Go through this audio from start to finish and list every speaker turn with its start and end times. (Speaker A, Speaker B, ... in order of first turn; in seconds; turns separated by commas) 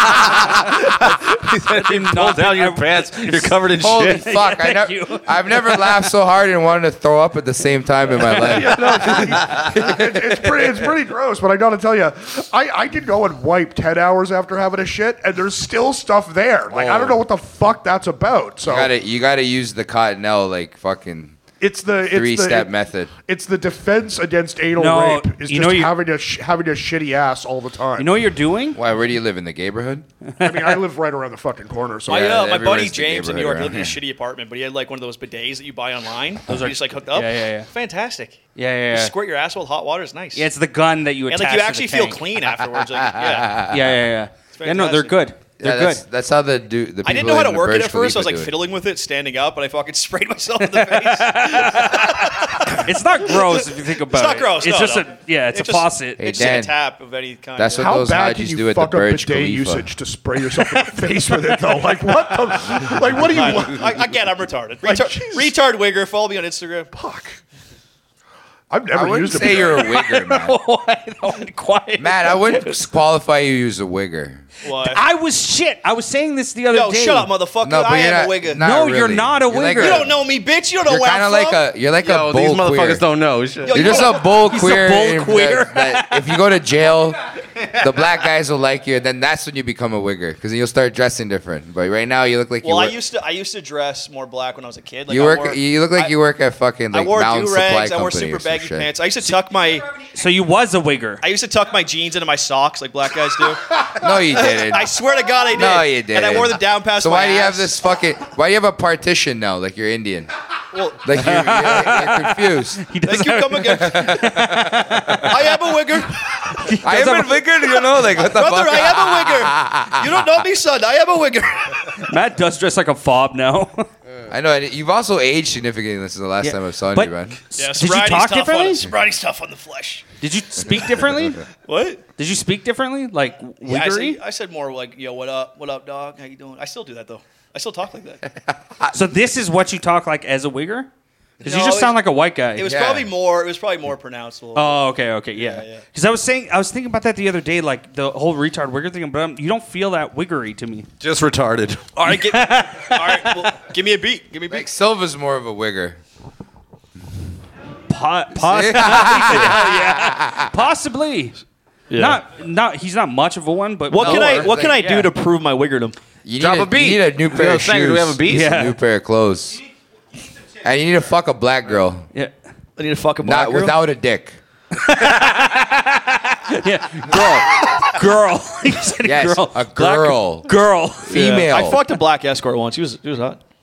Speaker A: 0.3-4.2, Speaker B: 1.7-6.0, Speaker C: 3.8-10.9, Speaker D: 8.3-18.9, Speaker A: 16.7-17.2, Speaker C: 18.6-21.4, Speaker D: 21.6-22.7, Speaker C: 22.0-23.1, Speaker D: 23.2-28.1, Speaker B: 24.8-25.9, Speaker B: 28.0-28.8, Speaker C: 28.8-30.1, Speaker B: 30.2-30.8, Speaker D: 30.4-32.3, Speaker C: 32.1-34.0, Speaker E: 32.1-40.5, Speaker B: 36.5-37.7, Speaker B: 38.6-39.1, Speaker B: 40.4-42.2, Speaker E: 41.3-43.6, Speaker C: 43.1-44.0, Speaker B: 43.7-46.0, Speaker E: 44.5-45.2, Speaker C: 45.6-48.5, Speaker E: 47.0-58.0, Speaker B: 50.6-56.2, Speaker C: 56.2-56.7, Speaker C: 57.6-59.9, Speaker D: 57.8-63.9, Speaker E: 63.2-66.9, Speaker D: 64.8-65.5, Speaker D: 66.9-67.4, Speaker D: 68.7-69.8, Speaker C: 68.9-70.6, Speaker B: 69.6-72.8, Speaker C: 72.0-74.4, Speaker E: 74.6-75.0, Speaker B: 74.8-77.3, Speaker E: 76.7-78.6, Speaker C: 77.6-80.1, Speaker B: 78.6-80.0, Speaker E: 79.8-81.6, Speaker C: 80.9-83.0, Speaker A: 82.0-83.9, Speaker E: 83.6-84.3, Speaker C: 83.7-93.0, Speaker B: 84.1-86.4, Speaker E: 92.6-96.1, Speaker C: 95.1-98.9, Speaker E: 96.9-99.9, Speaker B: 100.0-101.2, Speaker E: 101.2-103.7, Speaker C: 103.9-105.0, Speaker E: 104.4-107.8, Speaker C: 105.5-110.3, Speaker E: 110.7-111.0, Speaker C: 111.0-112.8, Speaker B: 111.1-115.3, Speaker E: 113.1-114.3, Speaker C: 113.8-115.1, Speaker E: 115.1-116.6, Speaker B: 116.5-117.8, Speaker C: 116.8-120.4, Speaker E: 118.1-122.0, Speaker B: 122.1-123.9, Speaker C: 124.3-127.4, Speaker B: 126.4-128.9, Speaker E: 127.6-130.1, Speaker B: 130.2-131.4, Speaker E: 131.7-132.0, Speaker B: 132.2-134.2, Speaker E: 133.6-138.3, Speaker C: 138.5-138.9, Speaker B: 138.9-140.9, Speaker B: 141.4-142.7, Speaker E: 141.4-142.0, Speaker E: 142.5-144.8, Speaker C: 142.7-143.1, Speaker B: 144.6-150.9, Speaker E: 145.3-145.8, Speaker A: 151.0-151.8, Speaker E: 152.0-154.7, Speaker B: 152.1-153.4, Speaker C: 154.5-156.0, Speaker B: 157.9-161.4, Speaker C: 158.4-160.5, Speaker E: 161.9-162.2, Speaker B: 161.9-165.1, Speaker E: 163.9-166.0, Speaker C: 164.0-164.8, Speaker C: 166.2-169.6, Speaker A: 166.4-168.5, Speaker B: 168.3-168.8, Speaker C: 170.6-172.1, Speaker E: 172.8-173.8, Speaker C: 173.2-174.4, Speaker B: 174.8-181.2, Speaker C: 177.1-177.6, Speaker C: 179.0-180.5, Speaker C: 181.1-181.8, Speaker E: 181.1-183.4